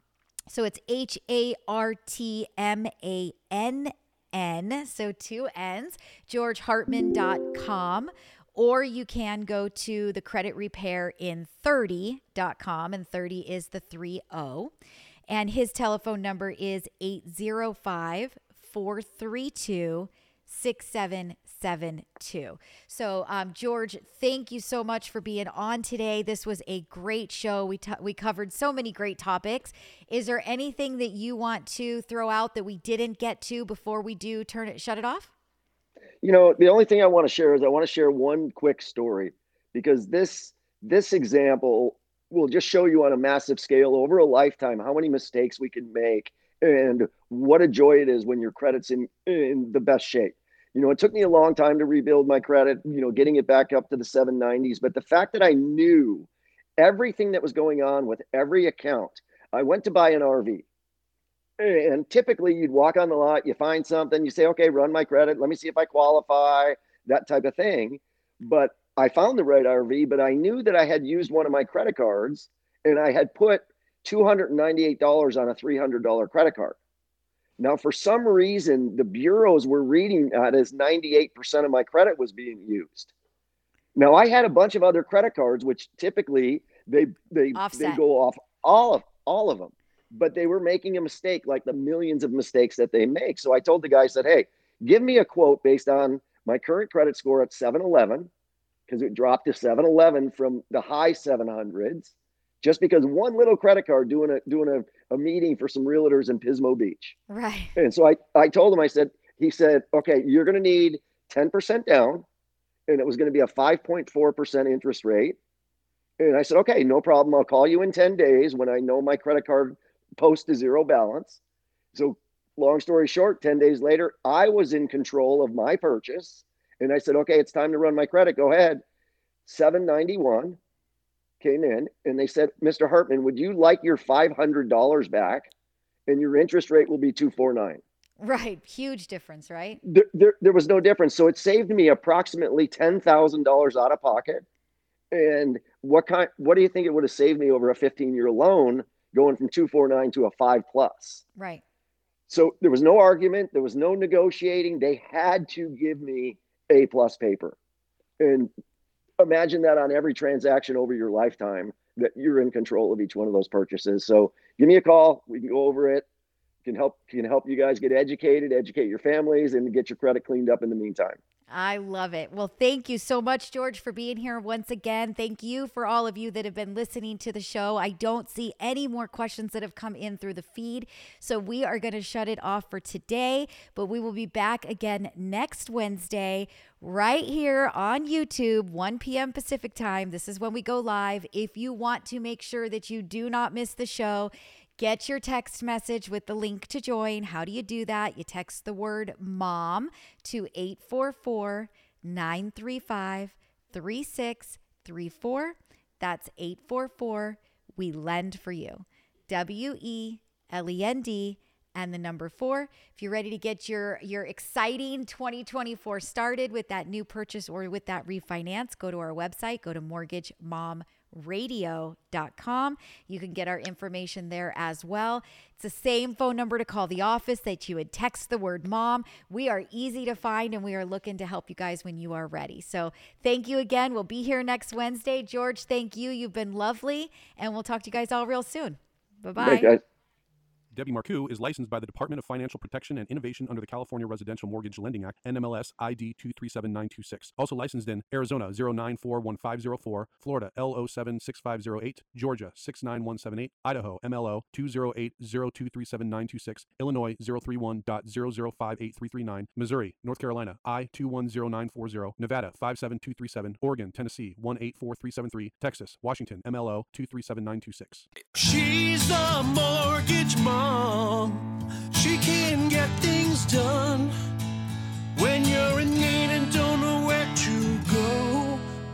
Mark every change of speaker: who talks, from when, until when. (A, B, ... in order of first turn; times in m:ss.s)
0:00.5-0:14.7 A
0:15.3-0:35.3 A
0:36.2-1:00.6 B
1:01.6-1:16.8 B
1:17.6-1:23.1 B
1:24.0-1:38.3 B
1:27.5-1:28.0 A
1:38.9-1:47.1 B
1:47.3-1:47.8 A
1:47.8-1:52.2 B
1:52.9-1:55.4 B
1:56.2-2:01.4 B
2:01.9-2:08.8 B
2:09.4-2:10.6 B
2:11.4-2:15.5 B
2:16.1-2:17.8 B
2:18.2-2:19.8 A
2:19.8-2:24.4 B
2:25.1-2:31.2 B
2:31.4-2:31.6 A
2:32.3-2:37.6 B
2:38.2-2:38.5 B
2:39.2-2:46.0 B
2:46.6-2:51.2 B
2:51.5-3:59.7 A
3:59.4-3:59.8 B
4:00.7-4:28.1 C
4:28.3-4:34.1 D
4:35.2-4:38.6 D